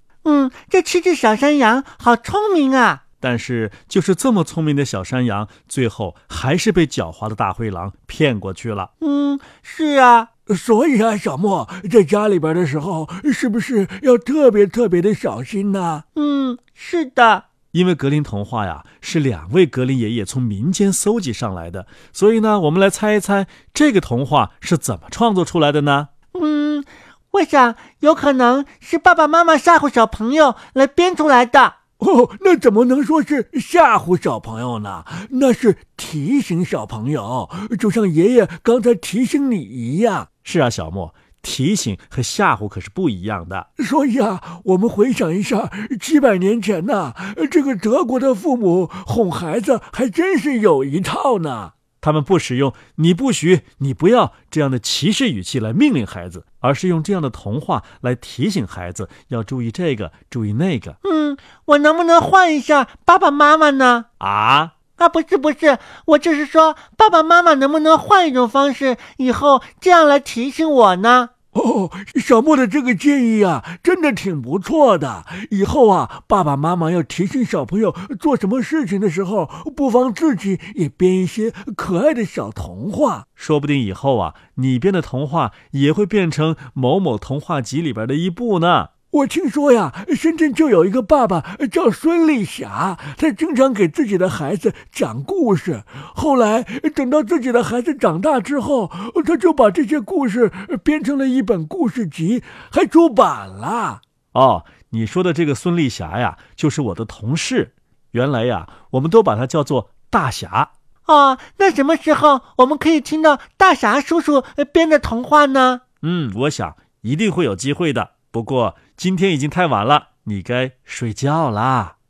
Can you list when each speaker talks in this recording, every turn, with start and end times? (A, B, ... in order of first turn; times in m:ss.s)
0:00.2-0:03.0 A
0:03.2-0:08.9 B
0:09.0-0:10.3 A
0:10.5-0:16.0 C
0:16.2-0:17.5 A
0:17.7-0:26.1 B
0:26.3-0:31.8 A
0:32.0-0:40.3 C
0:40.4-0:43.7 B
0:43.8-0:51.7 C
0:52.0-1:01.0 B
1:01.0-1:04.1 A
1:04.2-1:04.7 B
1:05.0-1:11.3 A
1:11.5-1:23.3 C
1:23.4-1:28.9 B
1:29.1-1:44.0 C
1:44.3-1:50.7 B
1:51.1-1:55.8 A
1:56.0-2:01.9 B